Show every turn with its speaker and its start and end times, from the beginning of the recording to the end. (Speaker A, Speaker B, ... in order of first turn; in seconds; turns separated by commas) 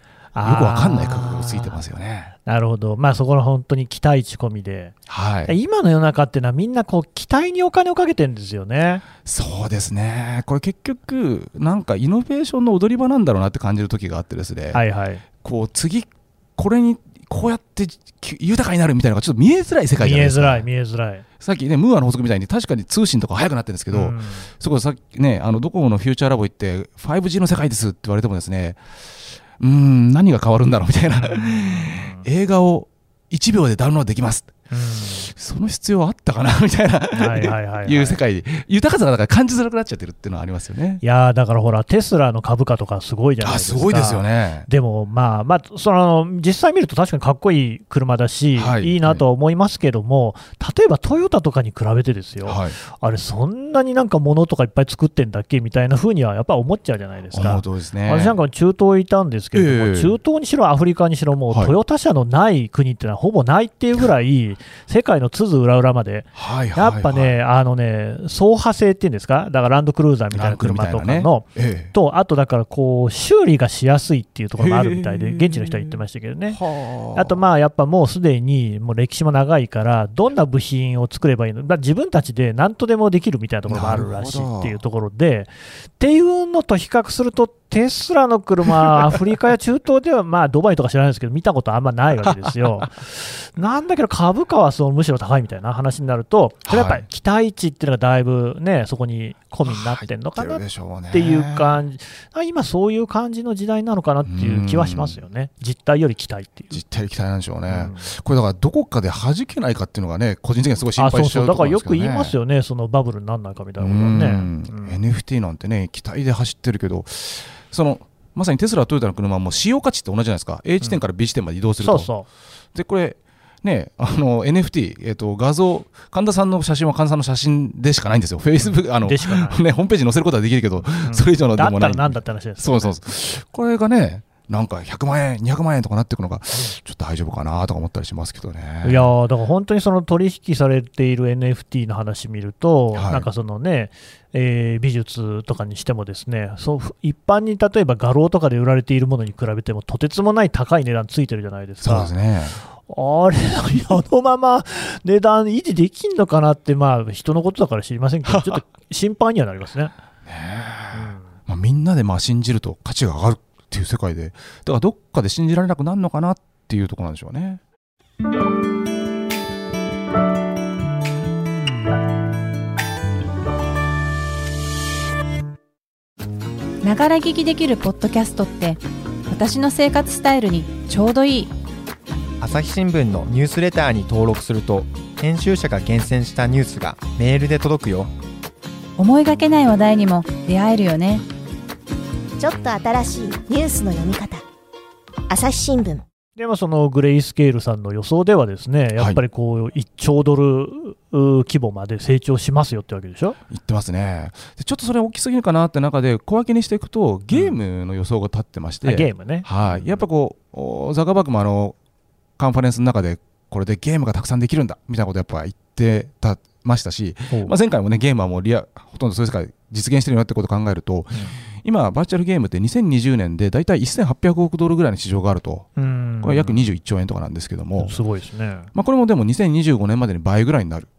Speaker A: 0.3-1.8, Speaker B: 0.4-2.3, Speaker A: 2.5-5.0, Speaker B: 5.1-5.5, Speaker A: 5.5-9.0, Speaker B: 9.2-14.8, Speaker A: 14.7-15.2, Speaker B: 15.4-20.6, Speaker A: 20.0-21.2, Speaker B: 21.4-41.0, Speaker A: 23.9-24.5, Speaker A: 31.2-32.2, Speaker A: 34.7-35.3, Speaker A: 37.1-38.2, Speaker A: 41.0-76.6, Speaker B: 43.4-44.7, Speaker B: 48.6-49.2, Speaker B: 52.5-52.8, Speaker B: 57.3-58.4, Speaker B: 59.5-60.2, Speaker B: 61.5-61.8, Speaker B: 66.3-67.4, Speaker B: 70.3-71.9, Speaker B: 74.6-77.4, Speaker A: 77.1-106.8, Speaker B: 83.7-84.8, Speaker B: 92.3-92.6, Speaker B: 96.7-97.0, Speaker B: 99.7-101.8, Speaker B: 104.2-105.2, Speaker B: 106.7-112.3, Speaker A: 107.7-108.1, Speaker A: 111.0-115.0, Speaker B: 113.8-122.1, Speaker A: 121.8-122.3, Speaker B: 122.7-139.1, Speaker A: 128.6-129.6, Speaker A: 131.0-133.0, Speaker A: 138.8-152.1, Speaker B: 142.9-143.3, Speaker B: 151.8-152.6, Speaker A: 152.8-159.9, Speaker B: 158.3-158.6, Speaker B: 160.3-167.6, Speaker A: 160.9-161.3, Speaker C: 176.8-181.5, Speaker D: 182.4-188.1, Speaker C: 189.0-191.2, Speaker E: 192.4-194.4, Speaker E: 195.3-196.1, Speaker A: 196.4-203.4, Speaker B: 203.5-211.8, Speaker A: 208.8-210.0, Speaker B: 212.4-225.7, Speaker A: 225.8-226.6, Speaker B: 226.2-227.9, Speaker A: 227.8-228.7, Speaker B: 228.8-230.9